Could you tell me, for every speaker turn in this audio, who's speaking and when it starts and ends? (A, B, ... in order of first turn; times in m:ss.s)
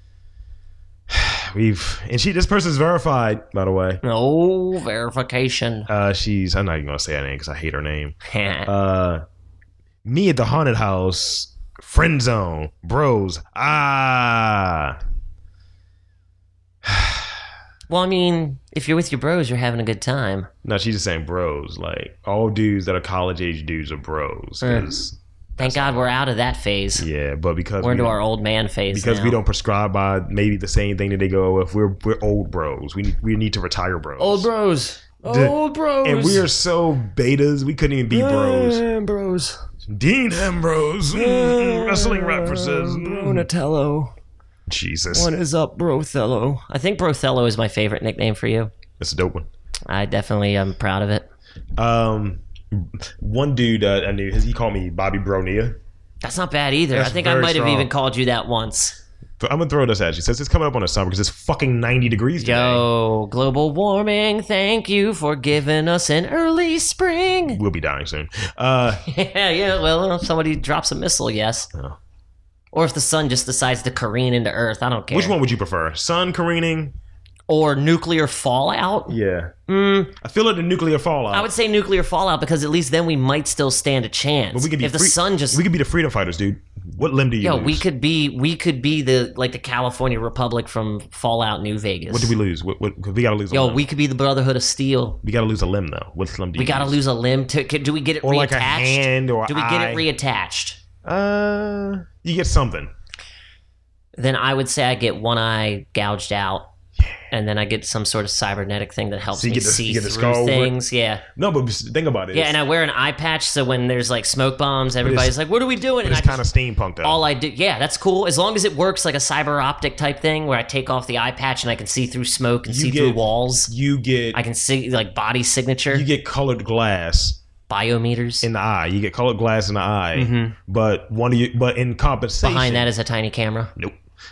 0:01.1-0:04.0 A
0:04.0-0:05.9 B
0:05.9-0:09.2 A
0:08.3-0:08.7 B
0:10.0-0:15.0 A
0:16.8-0:17.4 A
0:17.9-0:20.5 B
0:20.6-0:26.2 A
0:24.6-0:24.9 B
0:25.6-0:27.1 B
0:27.0-0:28.2 A
0:27.8-0:29.4 B
0:28.9-0:34.5 A
0:34.2-0:36.5 B
0:35.2-0:38.8 A
0:38.1-0:39.6 B
0:39.8-0:43.5 A
0:41.1-0:44.1 B
0:44.7-0:45.3 A
0:45.1-0:48.7 B
0:49.0-0:49.5 A
0:49.9-0:51.3 B
0:51.8-0:55.8 A
0:56.2-0:59.0 B
0:56.9-0:57.9 A
0:59.4-1:02.8 A
1:02.4-1:07.6 B
1:07.5-1:09.0 A
1:09.0-1:11.7 B
1:12.7-1:15.4 B
1:15.1-1:17.0 A
1:17.5-1:19.2 B
1:19.1-1:19.5 A
1:19.7-1:20.1 B
1:20.1-1:21.5 A
1:21.3-1:25.6 B
1:24.5-1:27.8 A
1:27.4-1:32.3 B
1:32.1-1:33.8 A
1:33.5-1:35.2 B
1:35.2-1:37.0 A
1:36.6-1:40.8 B
1:38.2-1:40.1 A
1:41.0-1:42.9 A
1:44.2-1:46.7 B
1:47.3-1:51.2 B
1:49.3-1:50.8 A
1:51.4-1:52.6 A
1:52.3-1:56.4 B
1:55.0-1:55.4 A
1:56.0-1:57.2 A
1:57.0-2:03.7 B
2:02.7-2:04.4 A
2:04.3-2:06.1 B
2:05.9-2:07.4 A
2:07.7-2:08.5 B
2:08.4-2:12.9 A
2:10.2-2:10.6 B
2:12.4-2:13.7 B